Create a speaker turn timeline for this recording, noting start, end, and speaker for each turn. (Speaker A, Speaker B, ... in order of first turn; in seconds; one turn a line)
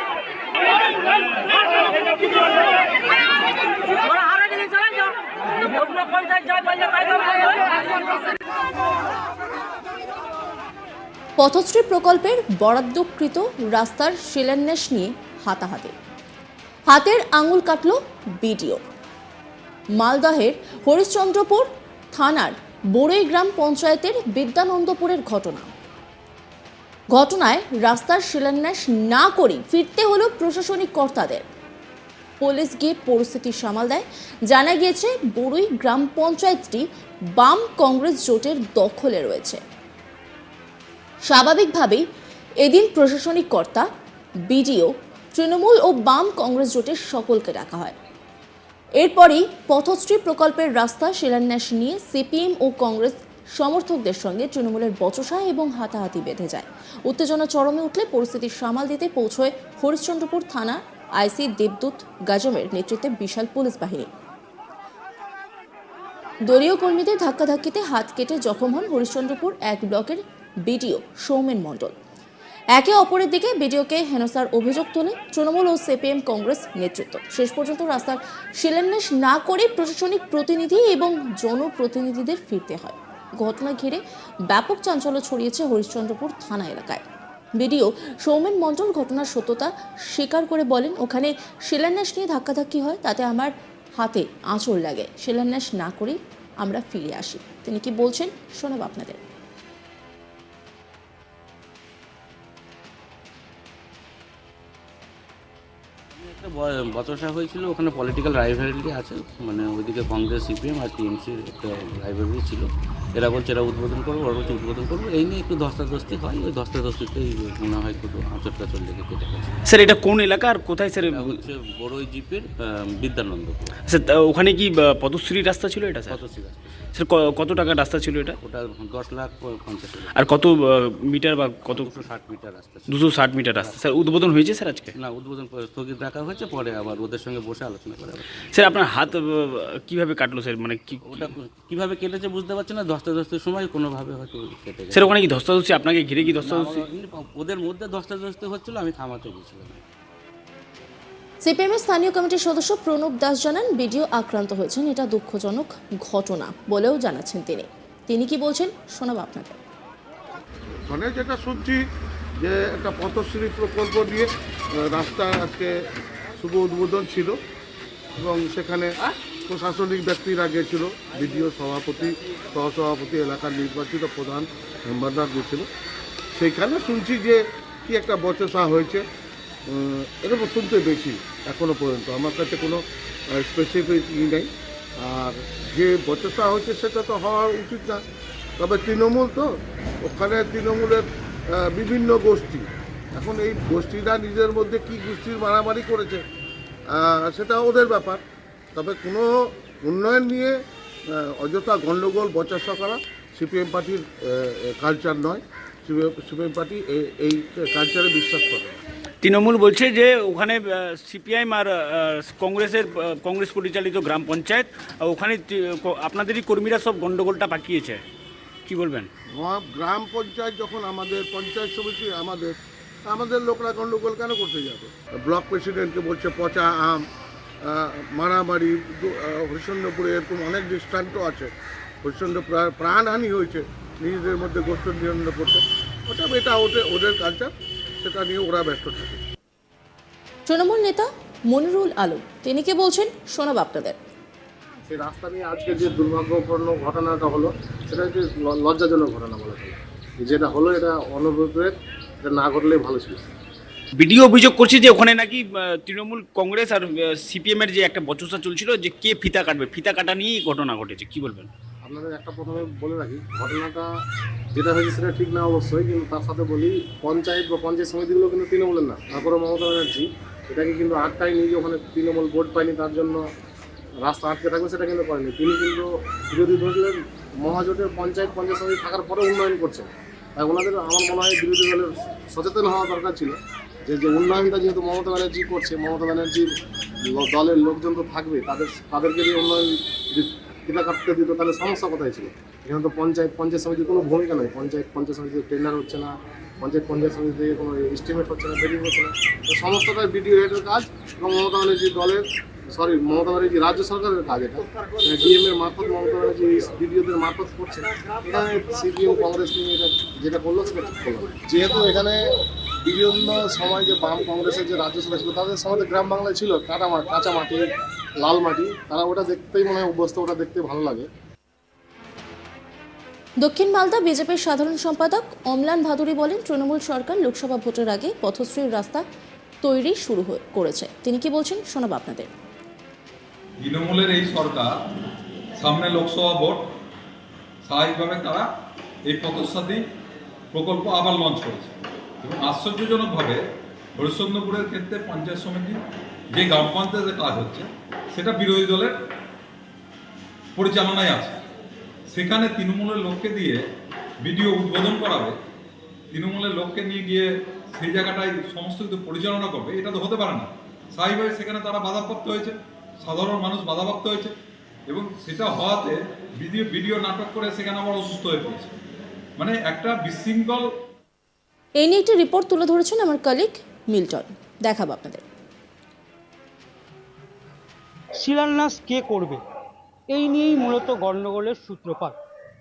Speaker A: 11.4-15.9
Speaker A: 16.9-18.8
Speaker A: 20.0-25.7
Speaker A: 27.1-31.4
Speaker A: 32.4-36.9
Speaker A: 37.4-39.6
Speaker A: 41.3-42.0
Speaker A: 42.6-43.9
Speaker A: 44.5-48.0
Speaker A: 49.0-64.1
Speaker A: 66.5-71.9
Speaker A: 72.7-87.0
Speaker A: 87.6-99.2
Speaker B: 106.2-119.6
Speaker C: 119.7-121.4
Speaker B: 121.0-123.8
Speaker C: 123.8-126.2
Speaker B: 126.0-126.8
Speaker C: 126.9-128.4
Speaker B: 128.4-130.3
Speaker C: 130.1-131.9
Speaker B: 131.7-134.1
Speaker C: 132.9-134.9
Speaker B: 134.9-139.2
Speaker C: 138.5-141.3
Speaker B: 141.0-145.2
Speaker C: 144.9-146.8
Speaker B: 146.2-149.8
Speaker A: 151.4-159.6
Speaker D: 160.9-161.8
Speaker D: 162.4-165.7
Speaker D: 166.4-167.3
Speaker D: 168.2-168.9
Speaker D: 169.5-175.7
Speaker D: 176.3-179.0
Speaker D: 179.7-184.5
Speaker D: 185.0-188.0
Speaker D: 188.6-189.5
Speaker D: 190.0-196.2
Speaker D: 196.9-198.2
Speaker D: 198.7-199.3
Speaker D: 199.8-200.6
Speaker D: 201.1-208.8
Speaker C: 209.2-218.0
Speaker C: 218.7-219.1
Speaker D: 219.3-222.6
Speaker D: 223.1-227.0
Speaker D: 227.6-231.5
Speaker D: 232.0-239.2
Speaker A: 240.5-244.0
Speaker E: 244.9-253.2
Speaker C: 254.0-261.5
Speaker E: 261.8-263.9
Speaker E: 264.5-273.2
Speaker E: 274.0-286.5
Speaker E: 287.1-312.2
Speaker E: 312.8-317.6
Speaker E: 318.2-321.1
Speaker A: 323.4-329.0
Speaker A: 329.6-332.3
Speaker F: 333.6-334.7
Speaker F: 335.6-336.6
Speaker F: 337.6-338.4
Speaker F: 339.1-339.8
Speaker F: 340.5-343.4
Speaker F: 344.0-345.8
Speaker F: 346.3-348.9
Speaker F: 350.6-351.4
Speaker F: 352.1-353.6
Speaker F: 354.2-355.3
Speaker F: 356.1-364.3
Speaker F: 364.9-368.7
Speaker F: 369.4-370.6
Speaker A: 371.8-375.2
Speaker G: 378.1-379.4
Speaker G: 380.1-382.1